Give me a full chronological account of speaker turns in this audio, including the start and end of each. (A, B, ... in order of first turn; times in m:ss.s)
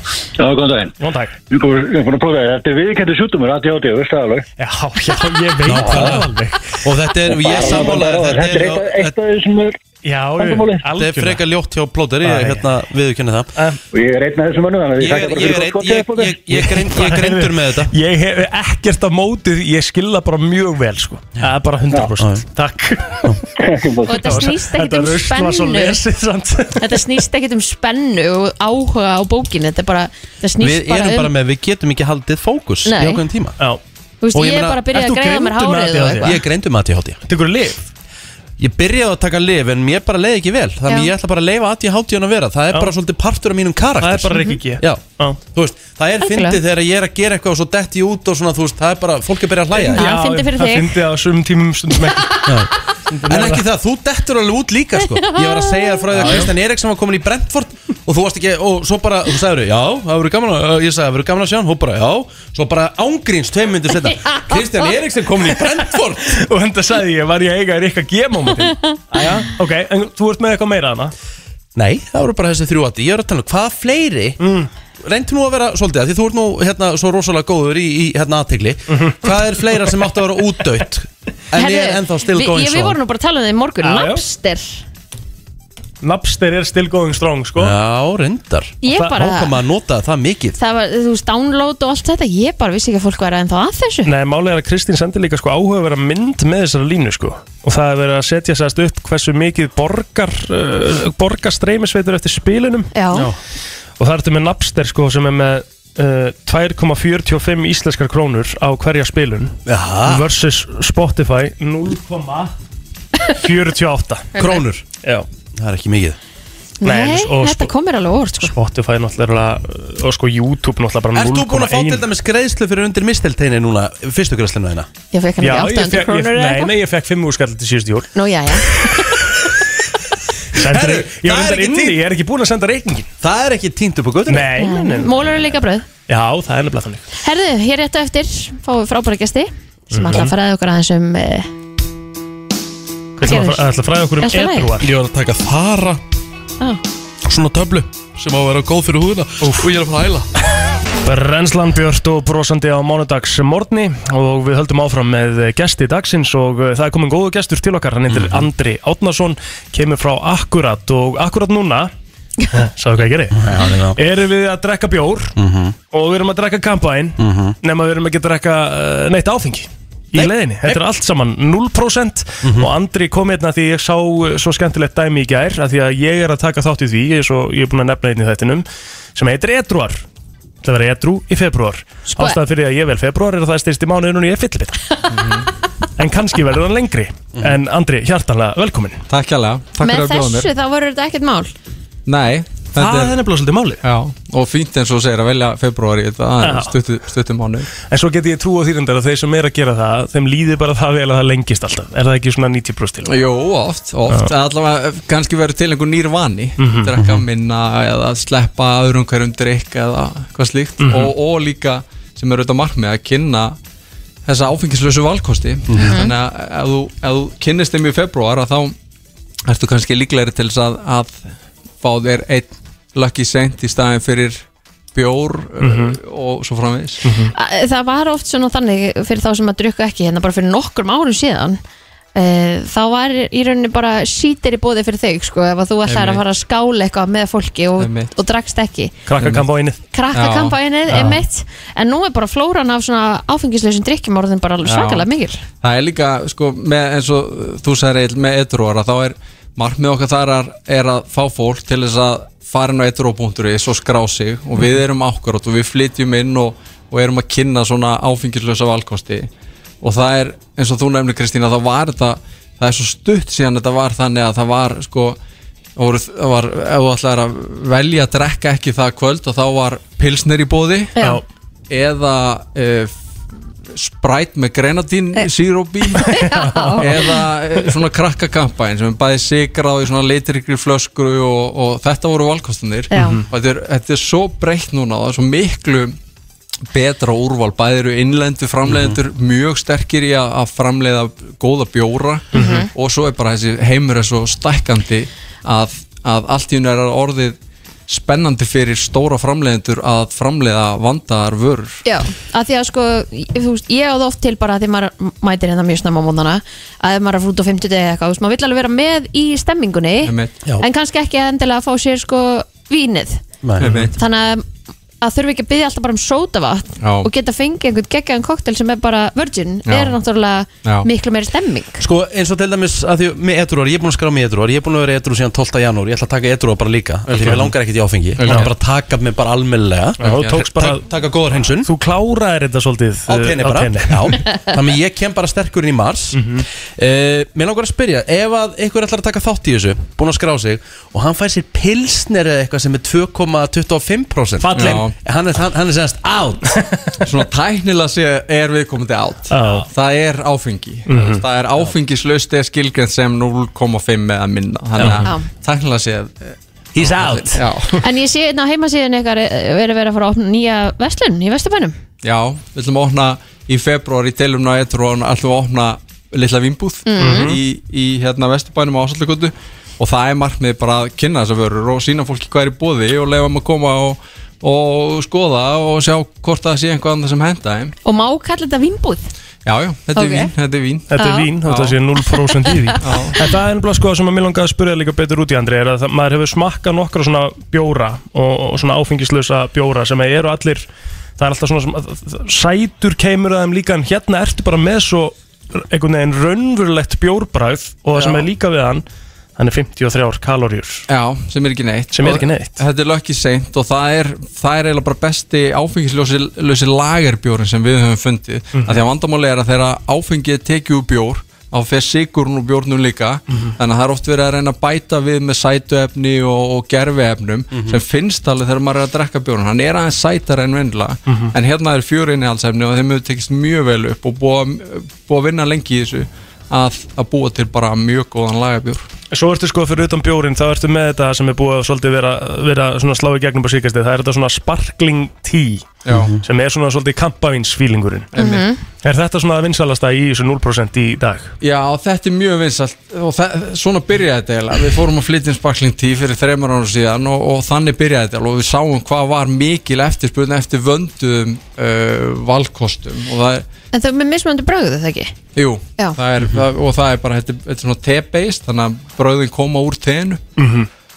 0:00.5-0:00.8 A
0:01.0-0:01.3 B
0:01.6-0:04.4 A
0:04.6-0:06.8 B
0:05.6-0:06.3 C
0:06.8-0:09.2 C
0:07.7-0:09.7 A
0:10.0-0:11.4 B
0:10.4-0:10.8 A
0:10.9-0:13.5 C
0:12.2-0:12.6 B
0:14.0-0:16.3 A
0:15.0-0:17.9 C
0:16.5-0:23.4 B
0:22.2-0:22.4 C
0:23.6-0:24.0 A
0:24.0-0:26.0 D
0:24.1-0:27.0 B
0:26.8-0:31.3 D
0:30.6-0:33.6 C
0:32.8-0:33.2 D
0:34.2-0:36.3 D
0:34.3-0:36.4 B
0:36.2-0:37.2 C
0:37.3-0:37.9 B
0:38.6-0:50.0 C
0:44.0-0:45.4 B
0:46.2-0:46.6 D
0:49.8-0:53.6 B
0:49.9-0:51.0 D
0:52.4-0:52.7 C
0:53.2-1:06.3 C
0:55.2-0:56.0 D
0:56.1-0:56.5 B
1:06.2-1:11.1 B
1:11.7-1:14.4 C
1:14.4-1:14.7 B
1:15.0-1:23.0 C
1:18.9-1:19.9 B
1:21.5-1:24.8 D
1:23.8-1:24.2 B
1:26.0-1:27.7 B
1:27.6-1:30.6 C
1:28.8-1:29.5 D
1:30.6-1:34.1 D
1:34.0-1:42.9 B
1:42.9-1:43.3 D
1:44.0-1:52.5 B
1:49.6-1:50.3 C
1:53.3-1:54.3 B
1:54.3-1:54.8 C
1:55.5-1:56.2 C
1:56.8-1:58.5 D
1:56.8-1:57.7 B
1:58.4-2:02.0 B
2:01.1-2:04.9 C
2:05.1-2:06.7 D
2:05.4-2:09.3 B
2:08.1-2:09.2 D
2:10.5-2:13.1 B
2:10.6-2:12.0 C
2:13.2-2:14.5 C
2:14.3-2:15.3 B
2:14.6-2:15.9 D
2:16.1-2:17.0 B
2:17.2-2:21.5 D
2:19.9-2:20.3 B
2:23.2-2:24.9 B
2:23.2-2:23.6 D
2:24.2-2:24.7 D
2:24.8-2:26.0 C
2:27.2-2:30.3 C
2:29.4-2:29.7 B
2:31.0-2:41.9 B
2:38.1-2:38.5 C
2:42.5-2:45.3 B
2:43.3-2:44.0 C
2:45.4-2:45.8 C
2:45.9-3:00.0 B
2:47.2-2:47.6 C
2:50.1-2:50.8 C
2:52.4-2:52.7 C
3:00.6-3:04.8 B
3:02.1-3:02.4 D
3:05.1-3:05.5 E
3:06.0-3:09.0 B
3:09.1-3:10.5 E
3:09.8-3:11.5 D
3:12.0-3:13.1 E
3:12.7-3:13.8 B
3:13.8-3:17.7 E
3:16.4-3:16.8 B
3:17.8-3:23.1 B
3:23.0-3:33.6 E
3:26.6-3:27.0 B
3:26.9-3:27.2 C
3:30.8-3:31.1 B
3:34.2-3:38.7 E
3:35.7-3:36.0 C
3:35.8-3:36.1 D
3:39.5-3:41.2 E
3:41.8-3:47.0 E
3:45.6-3:46.0 B
3:47.0-3:47.3 B
3:47.3-3:51.6 D
3:52.1-3:58.9 D
3:55.8-3:56.2 E
3:57.8-3:58.1 E
3:59.0-3:59.8 B
3:59.2-3:59.5 E
3:59.9-4:05.4 D
4:00.1-4:01.0 E
4:00.9-4:01.2 B
4:04.6-4:05.1 E
4:05.6-4:19.3 E
4:19.8-4:25.2 E
4:25.8-4:31.0 E
4:31.7-4:32.9 E
4:33.7-4:36.2 E
4:35.9-4:37.1 D
4:36.0-4:37.0 B
4:36.8-4:46.0 E
4:42.9-4:43.2 D
4:42.9-4:43.2 B
4:46.7-4:57.4 E
4:48.7-4:49.0 C
4:52.3-4:52.7 D
4:52.3-4:52.6 B
4:57.9-5:01.8 E
5:01.8-5:14.4 D
5:10.0-5:10.3 E
5:13.4-5:13.9 C
5:13.6-5:13.9 E
5:15.0-5:21.8 D
5:16.8-5:17.1 E
5:19.7-5:20.0 E
5:21.8-5:31.7 C
5:27.1-5:27.5 E
5:27.2-5:27.5 B
5:28.2-5:28.5 E
5:28.2-5:28.5 B
5:30.0-5:30.8 B
5:30.0-5:30.3 E
5:31.6-5:34.2 B
5:33.1-5:46.5 C
5:36.2-5:36.4 B
5:44.4-5:44.8 B
5:44.5-5:44.9 E
5:47.0-5:57.8 E
5:49.3-5:49.7 B
5:50.9-5:51.2 B
5:54.8-5:55.1 B
5:56.8-5:57.4 B
5:56.8-5:57.2 C
5:57.8-6:01.8 D
6:02.0-6:17.7 E
6:06.8-6:07.3 D
6:07.0-6:07.4 B
6:17.8-6:19.1 D
6:19.4-6:21.8 E
6:19.9-6:20.3 D
6:20.9-6:30.7 B
6:21.0-6:21.3 D
6:22.8-6:23.2 E
6:31.2-6:38.8 B
6:38.0-6:38.2 E
6:39.4-6:40.8 B
6:40.9-7:08.8 E
6:41.9-6:42.6 B
6:48.5-6:48.8 B
6:57.5-6:57.8 C
7:01.1-7:01.3 B
7:09.1-7:15.7 B
7:15.8-7:16.1 E
7:15.9-7:16.2 C
7:16.2-7:18.1 B
7:18.1-7:18.5 E
7:18.1-7:18.6 D
7:18.8-7:21.3 B
7:21.4-7:33.4 E
7:33.7-7:35.1 D
7:35.3-7:40.2 E
7:40.4-7:40.7 B